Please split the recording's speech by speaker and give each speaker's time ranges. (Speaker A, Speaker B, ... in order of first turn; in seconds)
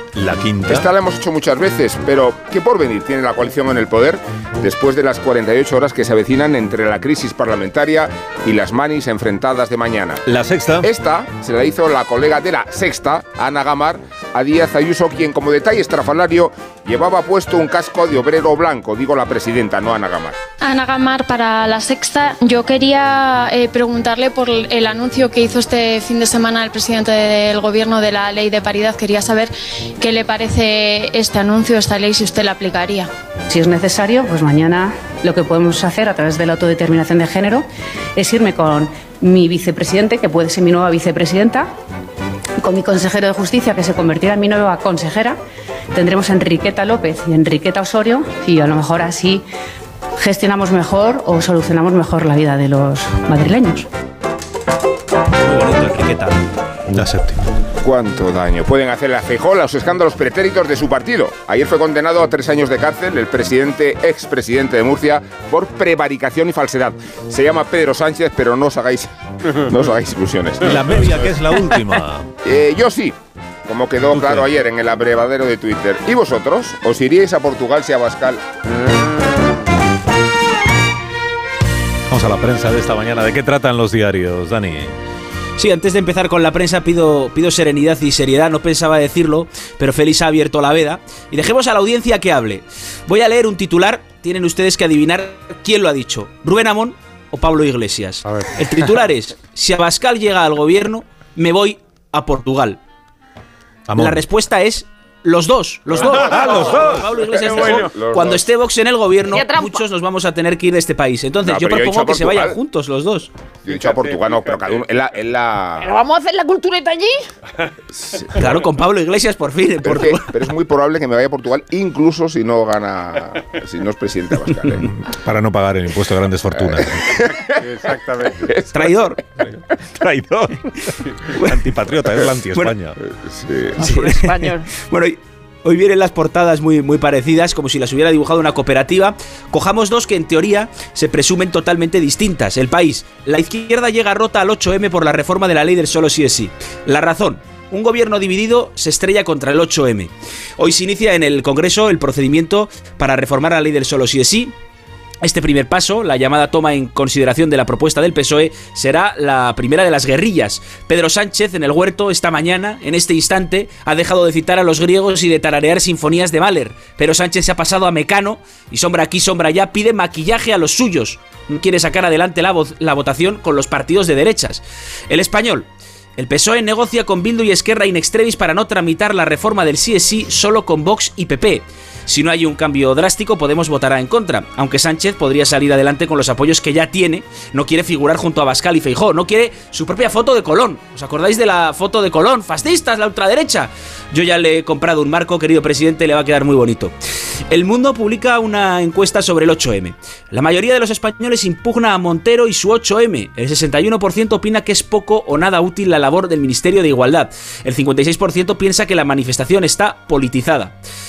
Speaker A: 0.1-0.9, 10.2-10.9, 56.9-57.4, 70.6-72.3, 74.1-74.5, 82.1-84.9, 103.9-104.2, 106.4-107.0, 125.0-127.0, 129.8-133.0
Speaker B: 0.7-10.2, 10.8-20.4, 57.8-71.0, 72.4-78.4, 106.0-106.9, 107.5-108.5, 111.4-112.6, 113.6-115.9, 118.0-118.4, 119.8-124.9, 126.6-127.8, 128.3-129.6, 133.0-133.8
Speaker C: 20.6-33.1
Speaker D: 33.5-37.6, 38.2-41.6, 42.6-45.4, 45.9-49.4, 50.2-53.9
Speaker E: 55.4-56.4, 85.6-102.8, 104.0-113.3, 118.3-120.3, 128.7-129.2, 131.3-131.6, 133.8-154.5, 155.2-196.9, 197.5-210.8
Speaker F: 106.2-106.8, 107.3-107.9, 113.7-114.8, 127.5-128.4
Speaker G: 109.3-109.8, 115.8-117.2, 133.8-134.7